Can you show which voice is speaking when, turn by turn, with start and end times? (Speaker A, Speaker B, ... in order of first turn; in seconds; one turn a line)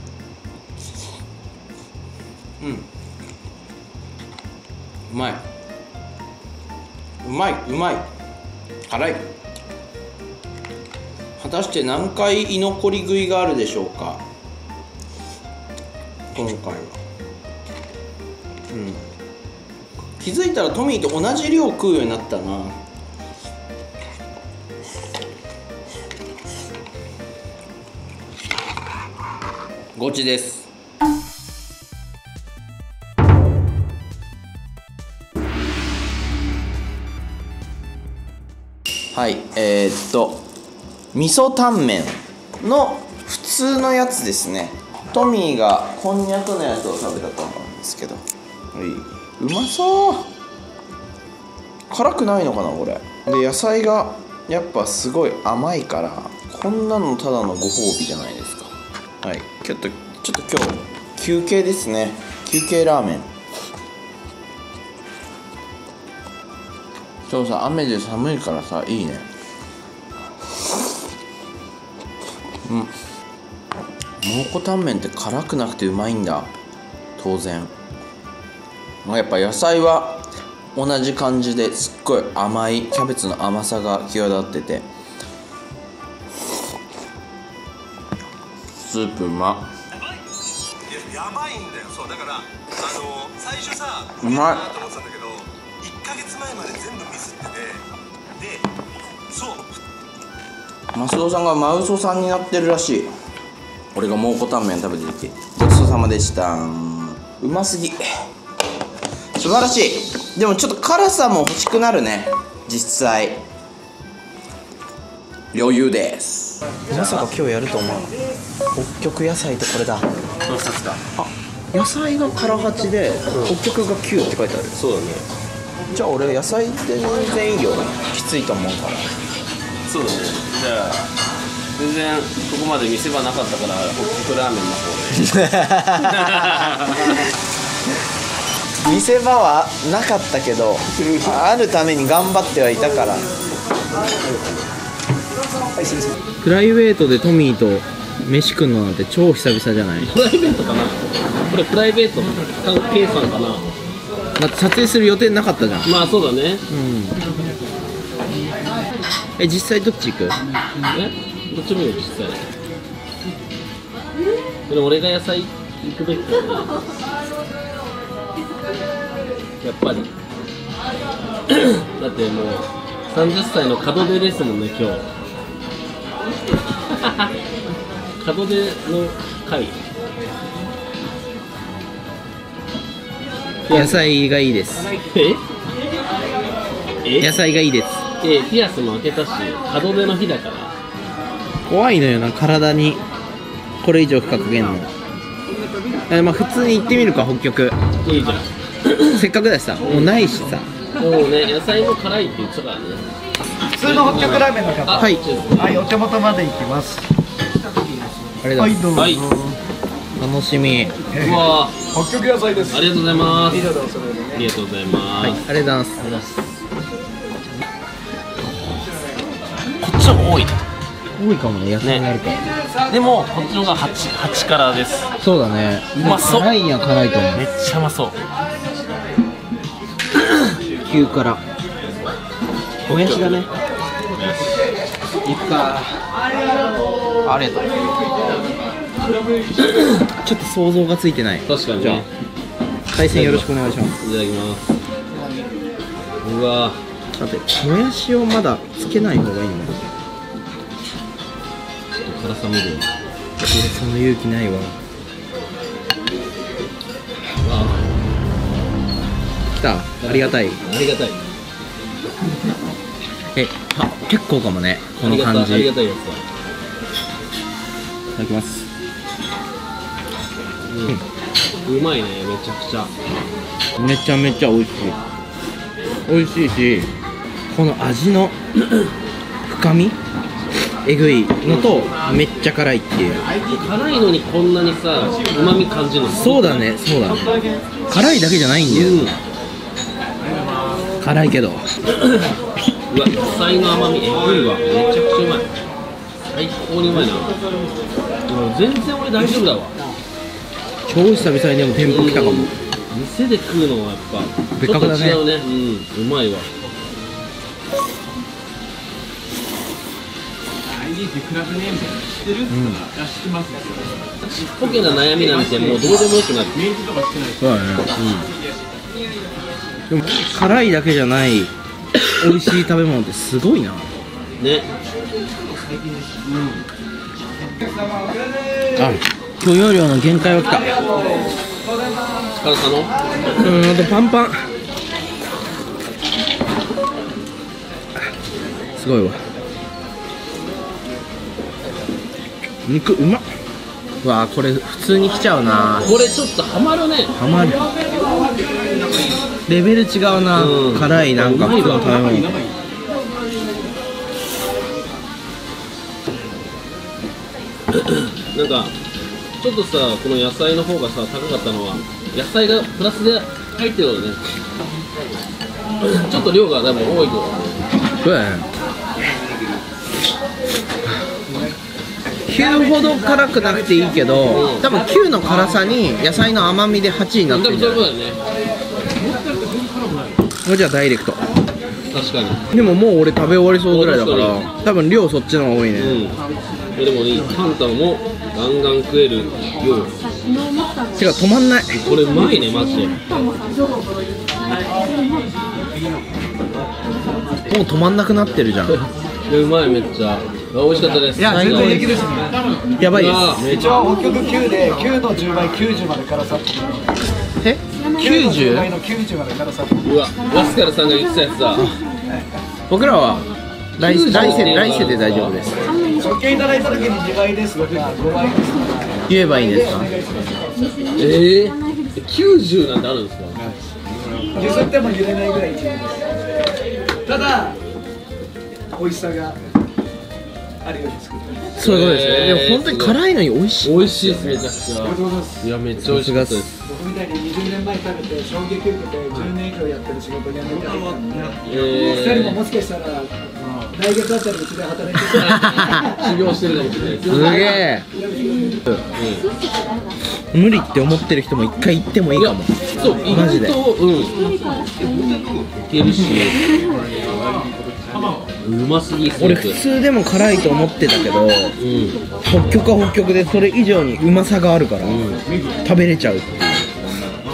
Speaker A: 2.6-2.9
Speaker A: 5.1-5.4
Speaker A: 7.2-8.1
Speaker A: 8.9-9.3
Speaker A: 11.4-14.2
Speaker A: 16.3-17.0
Speaker A: 18.7-19.1
Speaker A: 20.2-22.8
Speaker A: 29.9-30.7
Speaker A: 39.1-40.5
Speaker A: 41.1-50.3
Speaker A: 51.9-63.3
Speaker A: 67.3-69.3
Speaker A: 72.6-72.9
Speaker A: 74.2-76.5
Speaker A: 77.2-77.7
Speaker A: 79.0-84.9
Speaker A: 88.8-89.7
Speaker B: 90.8-97.8
Speaker A: 94.2-94.7
Speaker B: 98.4-98.8
Speaker B: 99.3-99.8
Speaker A: 100.9-103.1
Speaker A: 103.9-108.3
Speaker A: 109.4-113.4
Speaker A: 115.5-118.1
Speaker C: 116.9-117.3
Speaker A: 118.7-120.1
Speaker C: 120.5-121.0
Speaker A: 121.1-124.8
Speaker C: 123.3-123.6
Speaker C: 124.8-125.2
Speaker A: 125.9-129.1
Speaker C: 129.8-131.1
Speaker C: 131.8-137.2
Speaker A: 135.2-137.1
Speaker A: 138.8-143.3
Speaker C: 141.0-141.3
Speaker A: 146.4-150.1
Speaker C: 150.0-153.7
Speaker A: 154.4-155.9
Speaker C: 155.8-156.7
Speaker A: 156.7-157.2
Speaker A: 159.4-160.4
Speaker C: 160.9-162.5
Speaker C: 164.7-167.0
Speaker C: 169.6-170.1
Speaker C: 171.5-175.0
Speaker C: 176.9-177.3
Speaker C: 178.2-179.8
Speaker C: 183.7-184.0
Speaker A: 183.7-184.9
Speaker C: 185.0-185.4
Speaker C: 187.0-187.3
Speaker A: 187.2-188.0
Speaker C: 188.2-190.8
Speaker A: 191.7-193.0
Speaker A: 193.8-194.9
Speaker A: 196.1-197.8
Speaker C: 198.0-199.2
Speaker A: 199.1-200.7
Speaker C: 199.8-200.1
Speaker C: 201.0-203.1
Speaker C: 203.7-205.9
Speaker D: 203.7-207.1
Speaker A: 205.0-205.2
Speaker A: 208.4-208.8
Speaker D: 208.5-209.6
Speaker C: 208.9-209.3
Speaker A: 210.2-211.0
Speaker D: 211.1-214.5
Speaker C: 211.2-211.8
Speaker C: 212.7-213.7
Speaker C: 214.3-215.5
Speaker A: 215.2-216.1
Speaker C: 216.0-216.4
Speaker C: 219.8-220.6
Speaker A: 221.1-222.5
Speaker C: 222.9-225.1
Speaker A: 225.2-227.5
Speaker C: 225.9-226.5
Speaker C: 227.3-228.2
Speaker A: 230.8-231.4
Speaker A: 232.8-233.5
Speaker C: 232.9-233.5
Speaker C: 234.1-234.6
Speaker A: 235.2-236.0
Speaker A: 237.2-237.7
Speaker C: 239.6-239.9
Speaker A: 240.2-242.1
Speaker C: 241.5-242.1
Speaker A: 242.9-244.0
Speaker C: 243.1-244.7
Speaker C: 246.2-246.8
Speaker A: 247.1-249.8
Speaker C: 252.0-252.9
Speaker A: 253.4-254.8
Speaker C: 257.4-258.0
Speaker A: 259.6-260.6
Speaker C: 260.0-261.3
Speaker A: 263.3-265.7
Speaker C: 265.0-266.2
Speaker A: 268.1-268.7
Speaker C: 270.6-271.0
Speaker C: 271.6-272.9
Speaker A: 273.8-275.0
Speaker A: 276.1-276.9
Speaker A: 277.5-278.4
Speaker A: 279.4-280.0
Speaker A: 280.8-283.3
Speaker C: 283.4-286.6
Speaker A: 286.1-289.2
Speaker C: 288.7-289.2
Speaker A: 291.0-291.6
Speaker C: 292.0-292.3
Speaker C: 292.9-295.5
Speaker C: 296.3-297.3
Speaker C: 298.3-299.8
Speaker A: 300.9-302.5
Speaker C: 301.8-306.5
Speaker A: 304.6-305.2
Speaker A: 312.4-312.9
Speaker C: 314.2-316.6
Speaker A: 317.4-317.9
Speaker C: 318.0-318.3
Speaker A: 319.9-321.5
Speaker A: 322.1-324.1
Speaker C: 324.4-324.7
Speaker C: 326.2-326.6
Speaker A: 328.8-330.9
Speaker C: 332.4-332.9
Speaker A: 333.3-334.5
Speaker A: 338.7-339.2
Speaker A: 342.6-343.3
Speaker A: 344.0-345.9
Speaker C: 345.8-347.2
Speaker A: 347.2-347.6
Speaker A: 349.5-352.3
Speaker C: 350.3-352.1
Speaker C: 357.7-358.8
Speaker C: 359.4-364.2
Speaker C: 365.8-367.6
Speaker A: 368.0-368.5
Speaker A: 372.2-377.8
Speaker C: 374.3-374.7
Speaker C: 377.3-378.2
Speaker A: 380.4-381.2
Speaker C: 381.9-382.5
Speaker A: 382.5-386.0
Speaker C: 383.7-384.5
Speaker C: 385.8-386.2
Speaker C: 386.8-390.1
Speaker A: 390.9-391.9
Speaker C: 391.8-393.0
Speaker A: 397.5-398.8
Speaker C: 398.6-402.0
Speaker D: 401.0-402.5
Speaker A: 401.1-402.1
Speaker A: 402.8-403.4
Speaker C: 402.9-403.8
Speaker D: 403.4-407.1
Speaker A: 407.4-408.7
Speaker D: 407.9-409.8
Speaker C: 409.8-411.7
Speaker A: 411.6-411.8
Speaker A: 412.7-415.8
Speaker C: 413.8-415.4
Speaker D: 415.9-420.9
Speaker A: 419.1-419.9
Speaker C: 420.9-423.4
Speaker D: 424.3-426.2
Speaker D: 427.1-427.6
Speaker D: 428.7-429.4
Speaker D: 430.6-431.5
Speaker A: 431.6-434.5
Speaker C: 431.6-433.0
Speaker C: 433.6-436.6
Speaker D: 434.8-435.4
Speaker A: 435.8-436.7
Speaker D: 436.7-446.1
Speaker C: 441.5-442.4
Speaker C: 445.1-447.6
Speaker A: 445.3-445.9
Speaker A: 447.1-447.9
Speaker D: 448.0-448.6
Speaker C: 448.9-449.3
Speaker A: 450.3-453.6
Speaker C: 452.1-454.2
Speaker C: 455.7-456.4
Speaker C: 458.4-459.6
Speaker A: 459.2-461.6
Speaker C: 461.6-462.0
Speaker A: 462.2-466.8
Speaker C: 464.8-465.2